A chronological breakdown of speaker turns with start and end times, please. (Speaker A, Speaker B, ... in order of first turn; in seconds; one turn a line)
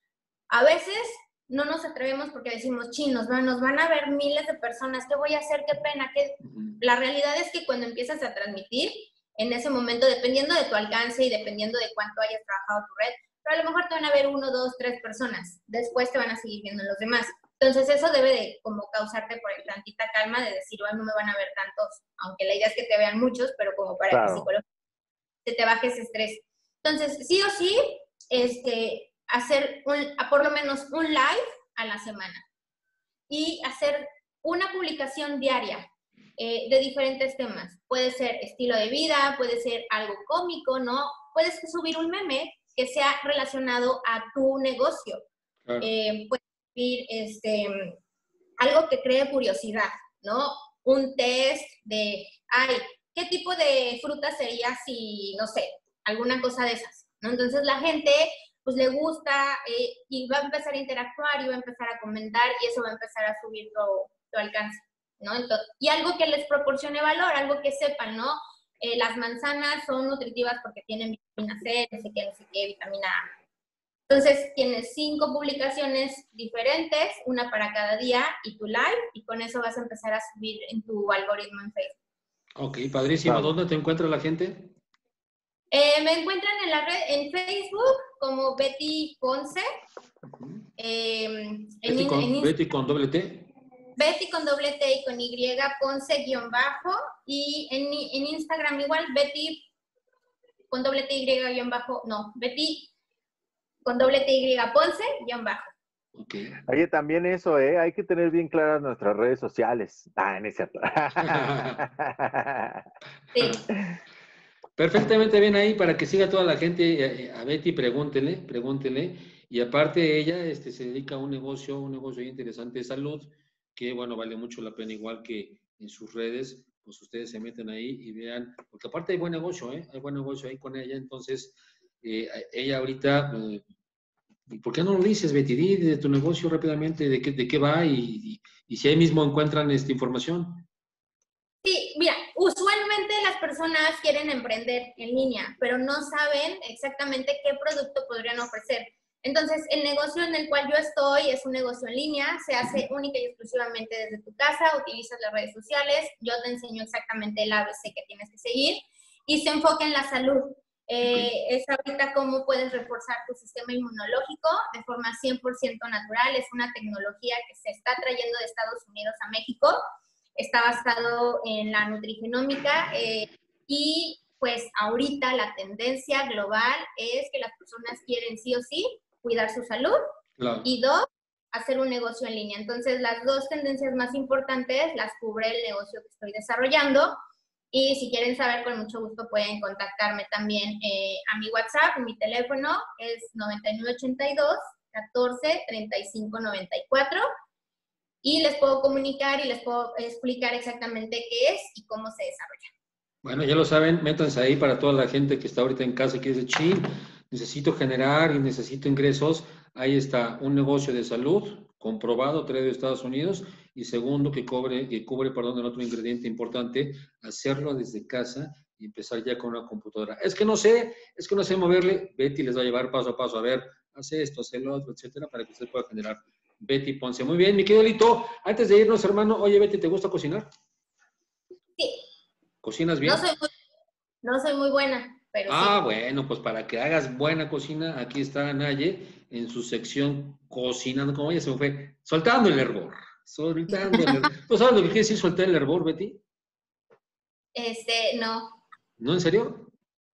Speaker A: 0.5-24.6
Speaker B: 6.4-6.8
Speaker C: 24.1-24.5
Speaker A: 25.4-32.4
Speaker A: 33.3-45.2
Speaker A: 45.8-48.0
Speaker A: 48.6-73.3
Speaker A: 74.1-82.0
Speaker B: 82.6-84.7
Speaker C: 83.2-83.5
Speaker A: 85.7-89.7
Speaker B: 90.3-90.7
Speaker A: 90.8-92.5
Speaker B: 91.8-93.5
Speaker A: 94.0-99.7
Speaker A: 100.7-102.9
Speaker A: 103.8-105.7
Speaker B: 106.2-106.6
Speaker C: 106.7-112.9
Speaker B: 111.2-111.8
Speaker B: 113.4-113.6
Speaker B: 114.8-133.7
Speaker B: 134.5-140.7
Speaker A: 141.6-169.8
Speaker B: 161.0-161.3
Speaker A: 170.4-180.0
Speaker B: 180.4-180.7
Speaker A: 180.6-187.2
Speaker A: 187.7-197.2
Speaker A: 198.2-202.7
Speaker B: 203.2-230.5
Speaker A: 231.8-232.0
Speaker B: 232.6-233.2
Speaker A: 233.0-233.5
Speaker A: 234.2-235.8
Speaker B: 235.5-246.2
Speaker A: 247.6-248.6
Speaker B: 249.0-249.7